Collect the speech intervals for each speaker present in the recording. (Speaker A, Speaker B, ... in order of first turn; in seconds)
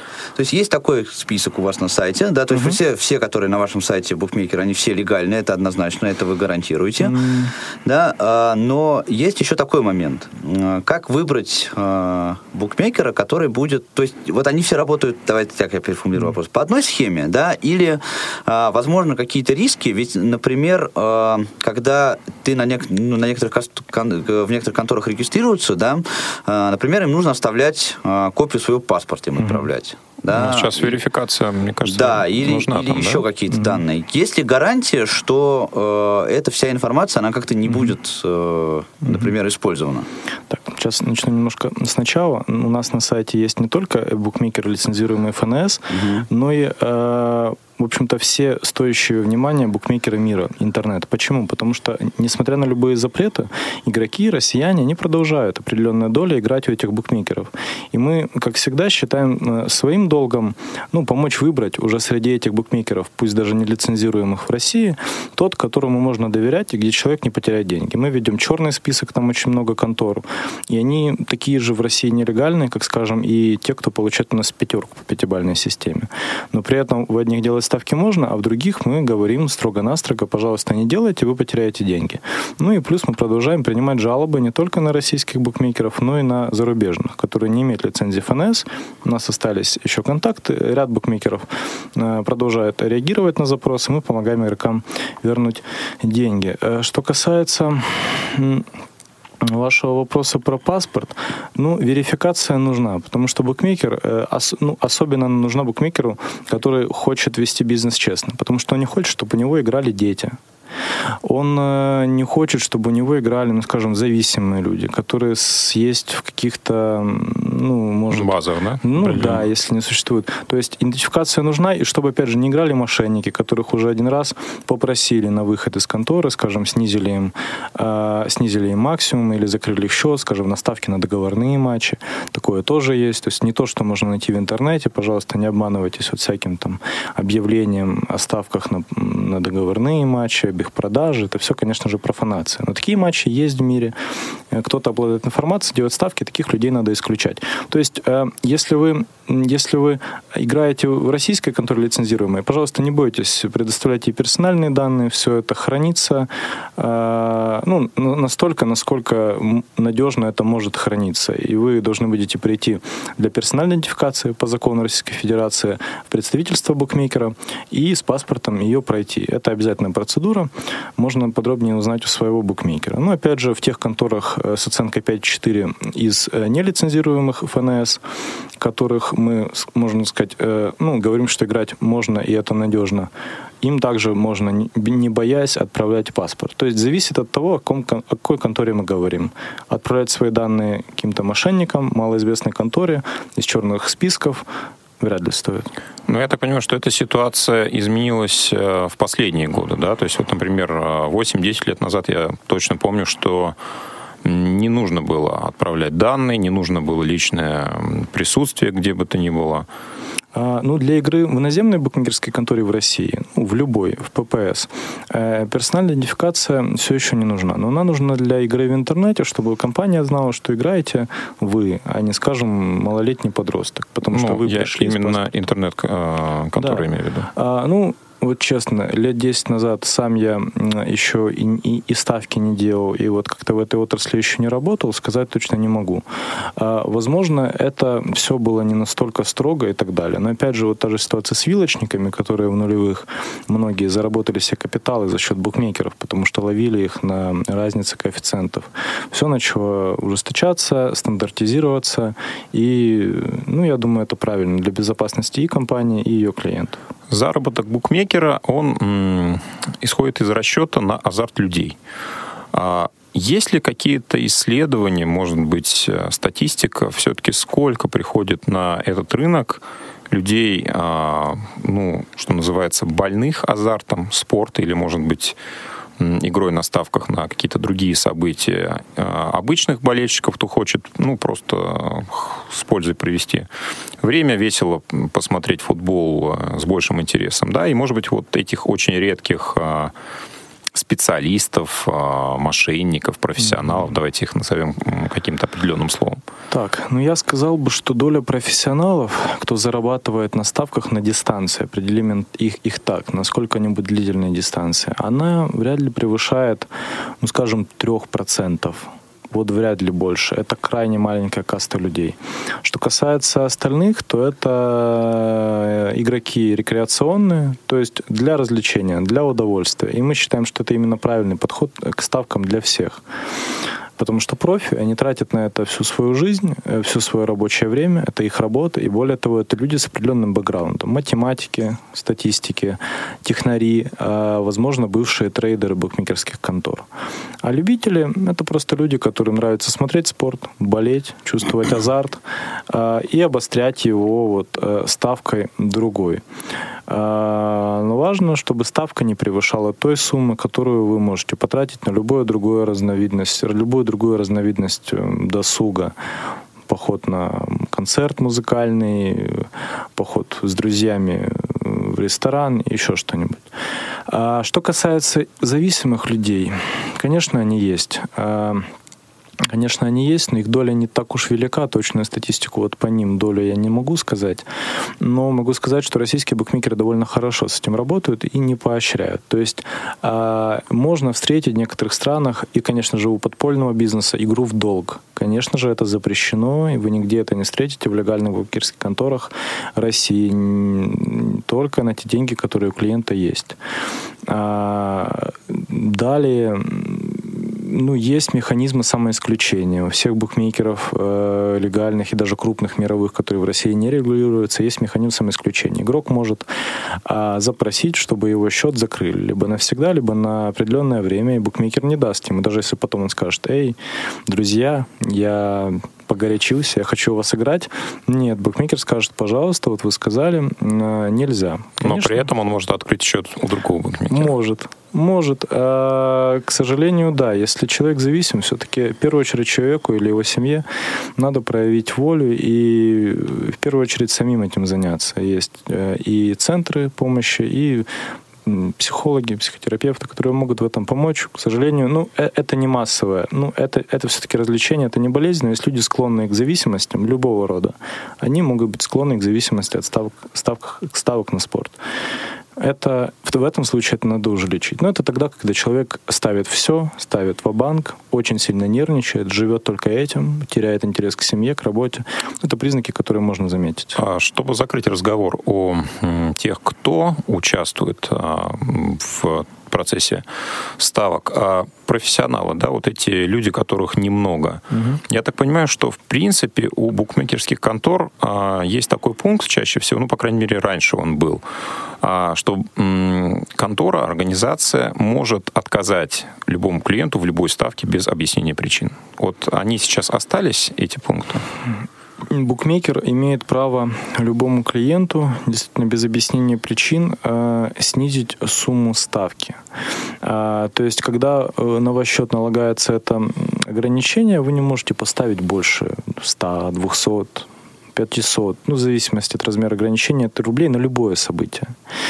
Speaker A: 0.3-7.2, 7.8-31.0, 31.9-40.1, 45.9-46.2
Speaker B: 2.5-2.8, 7.0-7.5, 29.4-29.7, 33.5-33.8, 40.5-98.7, 99.4-110.4, 111.2-143.9, 144.5-178.0, 178.6-183.1, 183.6-194.4, 195.0-195.7, 210.3-225.3, 226.6-236.0, 236.6-256.8, 296.5-306.7, 307.2-323.0, 324.0-336.9, 337.4-346.2, 346.9-355.9, 356.7-363.5, 364.1-368.7, 369.5-374.4, 375.0-393.6, 394.3-406.5, 407.1-413.8, 414.3-422.3, 424.1-430.7, 431.2-437.9, 438.5-451.8, 452.6-464.0, 474.7-475.0, 492.3-499.6, 500.2-511.7
Speaker C: 30.3-33.2, 118.1-119.5, 196.1-203.6, 204.2-209.7, 224.1-227.3, 257.1-261.8, 262.5-275.4, 276.0-283.5, 284.0-289.9, 290.7-296.2, 421.8-424.3, 464.0-470.3, 470.8-481.4, 482.0-491.4